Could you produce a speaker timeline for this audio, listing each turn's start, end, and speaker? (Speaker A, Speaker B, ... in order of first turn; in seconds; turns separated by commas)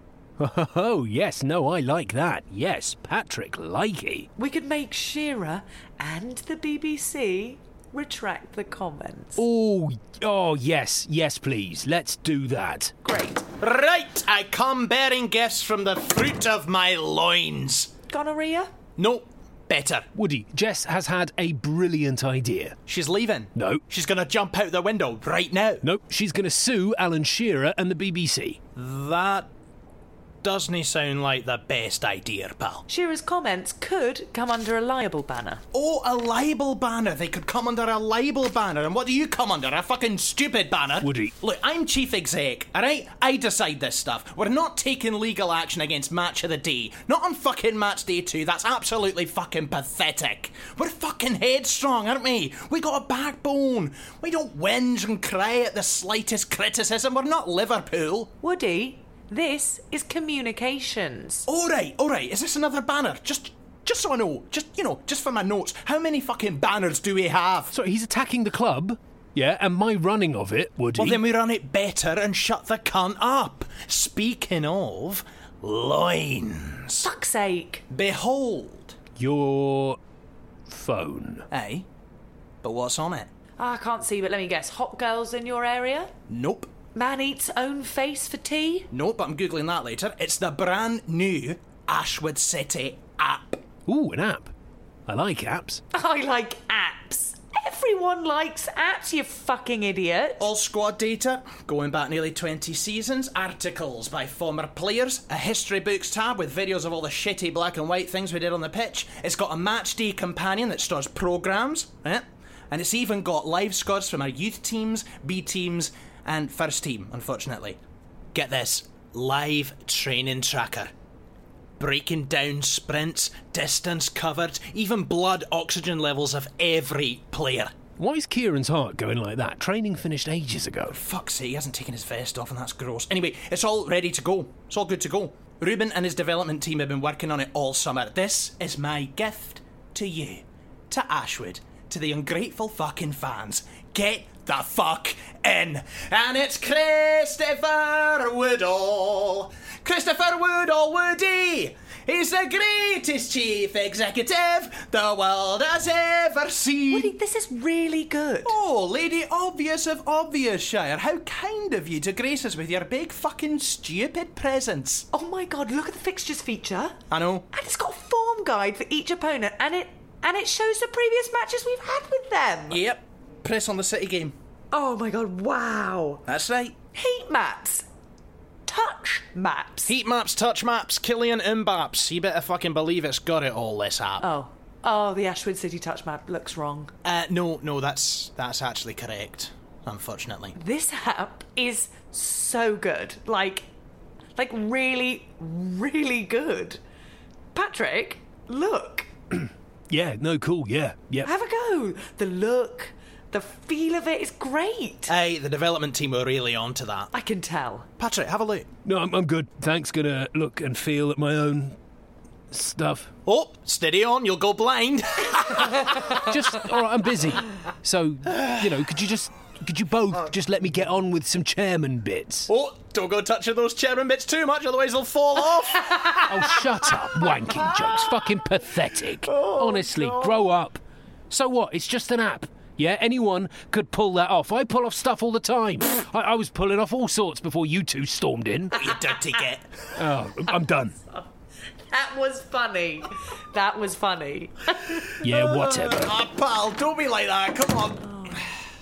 Speaker A: 0.4-4.3, Speaker B: 4.4-9.4, Speaker A: 9.4-12.9, Speaker B: 13.0-13.5, Speaker C: 13.6-17.9, Speaker B: 18.1-18.7, Speaker C: 19.0-20.1, Speaker A: 20.1-22.8, Speaker C: 22.9-25.8, Speaker A: 23.5-23.8, Speaker A: 25.8-28.6, Speaker C: 28.7-29.5, Speaker C: 30.4-32.9, Speaker B: 32.9-35.6, Speaker C: 35.7-58.3, Speaker A: 41.0-41.3, Speaker B: 58.4-61.4, Speaker C: 61.5-67.7, Speaker A: 67.7-71.2, Speaker C: 71.0-77.1, Speaker B: 77.0-77.8, Speaker C: 77.9-79.0, Speaker A: 79.2-80.0, Speaker A: 80.7-81.5, Speaker C: 81.5-81.8, Speaker C: 82.6-83.3, Speaker B: 83.6-86.1, Speaker C: 86.3-86.7, Speaker B: 86.9-88.9, Speaker C: 88.9-93.6, Speaker A: 93.9-94.5, Speaker A: 95.1-95.8, Speaker B: 95.9-100.5, Speaker C: 100.4-117.8, Speaker C: 118.3-120.9, Speaker C: 121.8-127.7, Speaker A: 128.0-131.0, Speaker C: 130.9-157.1, Speaker B: 156.9-158.6, Speaker C: 158.4-165.1, Speaker B: 165.1-167.0, Speaker C: 167.1-167.5, Speaker B: 167.5-172.8, Speaker C: 172.7-174.3, Speaker B: 174.7-176.2, Speaker C: 176.2-176.8, Speaker B: 176.9-177.9, Speaker B: 178.7-179.9, Speaker C: 179.9-184.2, Speaker B: 184.2-186.9, Speaker C: 187.0-190.6, Speaker B: 190.6-193.7, Speaker B: 194.3-196.8, Speaker B: 197.5-199.1, Speaker A: 199.9-201.3, Speaker B: 201.2-205.1, Speaker C: 205.1-207.1, Speaker B: 207.1-207.9, Speaker C: 208.0-208.7, Speaker A: 208.8-211.8, Speaker A: 212.5-213.1, Speaker C: 213.2-216.2, Speaker A: 216.1-222.5, Speaker C: 222.5-226.3, Speaker A: 226.2-238.8, Speaker C: 238.7-239.7, Speaker A: 239.9-241.0, Speaker B: 241.9-245.1, Speaker A: 245.2-246.2, Speaker C: 245.2-248.4